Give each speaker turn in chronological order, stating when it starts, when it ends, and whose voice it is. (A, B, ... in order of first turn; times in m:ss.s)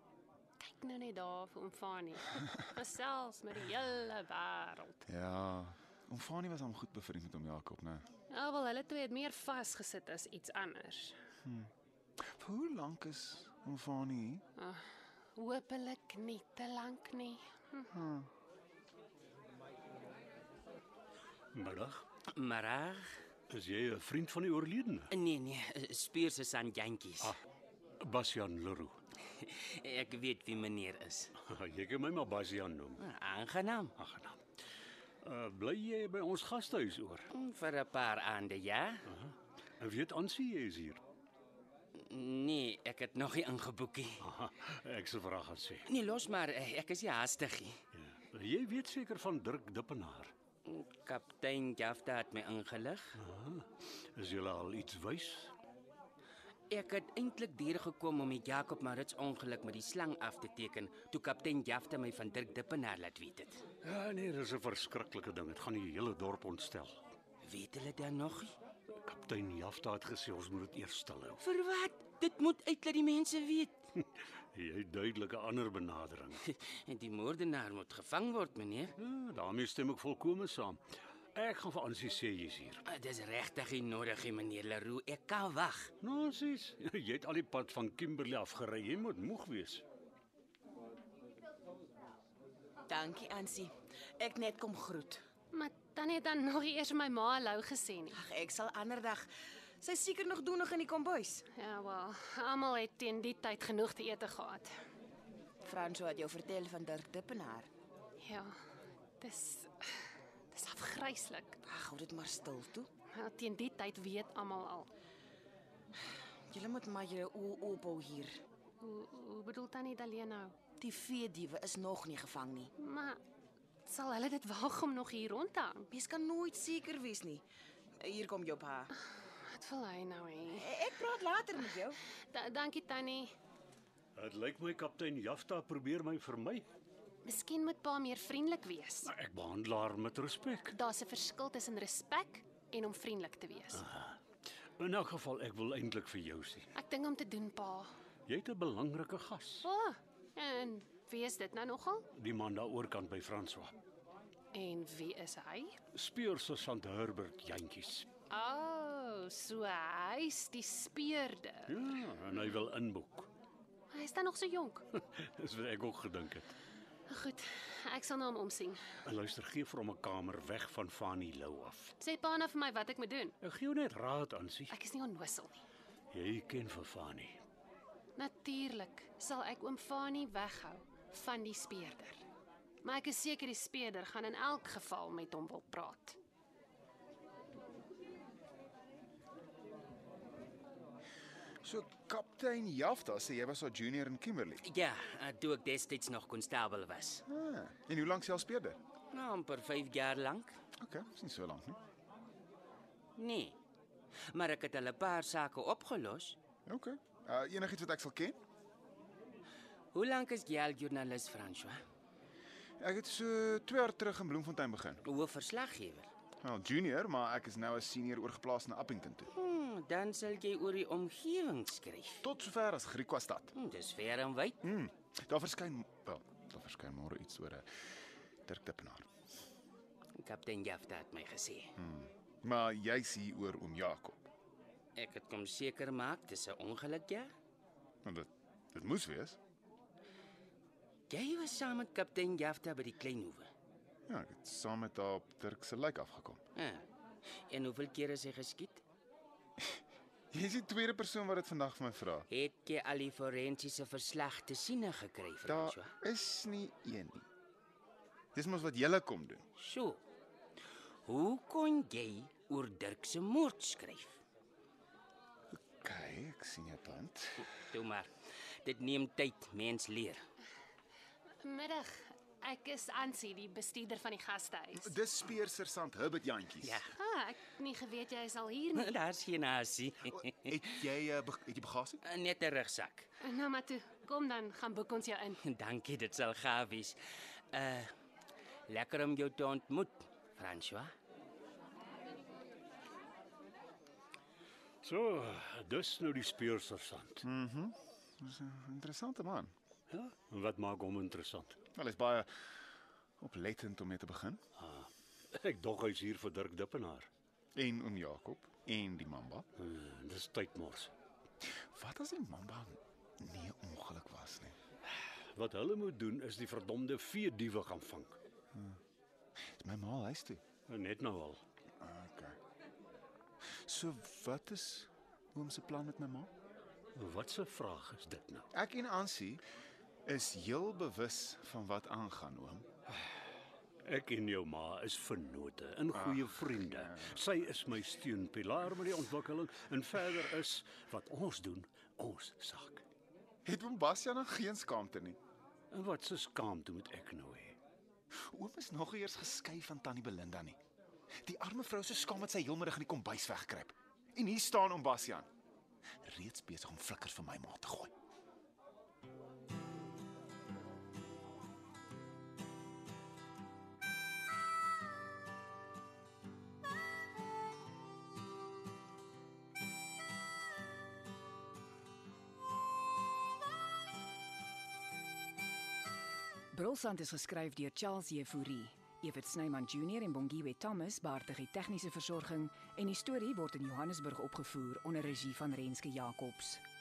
0:00.6-0:05.0 A
0:05.0-0:08.1 B
0:08.3-0:11.2 A
0:11.4-0:14.4 B
0:14.6-0:17.9 A
0:17.9-0:18.3 B
0:21.5-0:22.0 C
0:22.3-0:23.2 D
0:23.5-0:25.1 C
0:25.1-0:27.3 D
0:28.0-0:29.0 C
0:29.4-0:31.3 D
0:31.4-0:33.0 C
0:33.0-0:33.9 D
0:34.0-0:34.4 C
0:35.2-0:37.3 C
0:37.3-0:39.0 D
0:39.1-0:41.0 C
0:42.0-0:44.2 D
0:44.2-0:45.9 C
0:45.9-0:47.8 D
0:47.9-0:50.3 C
0:50.6-0:53.1 D
0:53.2-0:55.5 C
0:56.7-1:03.6 D
1:03.8-1:07.0 C
1:07.4-1:08.5 D
1:09.0-1:11.4 C
1:11.4-1:13.8 D
1:14.0-1:16.4 C
1:16.4-1:18.9 D
1:19.0-1:20.8 C
1:21.3-1:22.8 C
1:22.8-1:25.9 D
1:26.0-1:29.8 C
1:32.9-1:35.2 E
1:35.5-1:38.2 A
1:38.1-1:39.3 E
1:39.8-1:41.4 E
1:41.5-1:44.7 A
1:45.6-1:47.7 E
1:48.2-1:48.5 A
1:49.2-1:51.6 A
1:51.6-1:52.9 E
1:53.1-1:54.9 A
1:56.5-1:58.3 E
1:58.8-2:00.5 A
2:00.8-2:02.7 E
2:02.8-2:03.2 A
2:03.8-2:05.9 A
2:05.9-2:07.4 E
2:08.0-2:08.9 E
2:09.3-2:10.7 A
2:10.5-2:12.0 E
2:12.3-2:13.3 A
2:14.2-2:16.7 C
2:17.2-2:19.1 A
2:19.0-2:20.7 C
2:20.7-2:23.8 A
2:23.7-2:24.2 C
2:24.8-2:26.7 C
2:26.7-2:27.9 A
2:28.3-2:29.7 C
2:29.6-2:32.0 A
2:32.1-2:33.8 C
2:34.5-2:35.8 A
2:35.9-2:38.1 C
2:38.3-2:41.8 A
2:41.7-2:43.3 C
2:43.9-2:44.8 A
2:45.0-2:46.5 C
2:47.1-2:48.8 A
2:49.0-2:51.9 C
2:52.0-2:53.4 A
2:53.4-2:54.7 C
2:54.7-2:55.6 A
2:56.1-2:57.4 C
2:58.2-3:02.2 A
3:02.8-3:06.2 A
3:11.6-3:14.6 B
3:14.6-3:17.2 D
3:17.3-3:18.8 B
3:19.1-3:20.6 D
3:20.8-3:21.8 B
3:23.2-3:23.6 D
3:24.3-3:26.4 D
3:26.6-3:28.4 B
3:29.9-3:31.8 D
3:32.8-3:35.0 B
3:35.0-3:36.1 D
3:36.4-3:39.3 B
3:39.3-3:42.2 D
3:42.2-3:43.5 B
3:43.5-3:44.6 D
3:44.6-3:47.7 B
3:48.4-3:49.1 B
3:50.2-3:51.7 D
3:51.8-3:54.2 B
3:55.0-3:57.3 D
3:58.0-3:59.4 B
4:01.1-4:03.5 D
4:04.1-4:06.4 B
4:06.6-4:06.8 D
4:07.5-4:08.8 D
4:10.3-4:12.3 B
4:12.3-4:15.9 D
4:15.4-4:17.2 B
4:18.3-4:19.4 B
4:19.6-4:20.0 D
4:21.0-4:24.2 D
4:25.7-4:27.5 B
4:27.6-4:28.1 D
4:28.6-4:30.2 D
4:31.4-4:34.9 A
4:34.7-4:36.8 B
4:36.6-4:36.9 D
4:37.0-4:39.0 A
4:38.8-4:40.6 D
4:40.1-4:42.0 B
4:42.0-4:43.1 D
4:43.2-4:45.4 A
4:45.4-4:47.0 D
4:47.5-4:47.9 D
4:48.7-4:50.9 D
4:54.8-4:57.2 C
4:57.2-4:59.5 B
4:59.9-5:01.6 C
5:01.7-5:02.6 B
5:03.2-5:04.4 B
5:04.6-5:07.1 C
5:07.5-5:09.4 B
5:09.6-5:10.9 C
5:11.7-5:14.6 B
5:14.8-5:18.1 C
5:18.5-5:18.8 B
5:19.5-5:20.4 B
5:20.7-5:21.4 C
5:21.8-5:22.4 B
5:23.5-5:26.3 B
5:26.9-5:28.5 C
5:28.5-5:29.4 B
5:30.0-5:32.6 B
5:33.8-5:42.8 C
5:35.9-5:37.2 B
5:43.4-5:45.2 B
5:45.7-5:47.6 C
5:48.3-5:50.6 B
5:51.2-5:55.3 B
5:56.0-5:57.9 B
6:16.5-6:26.6 F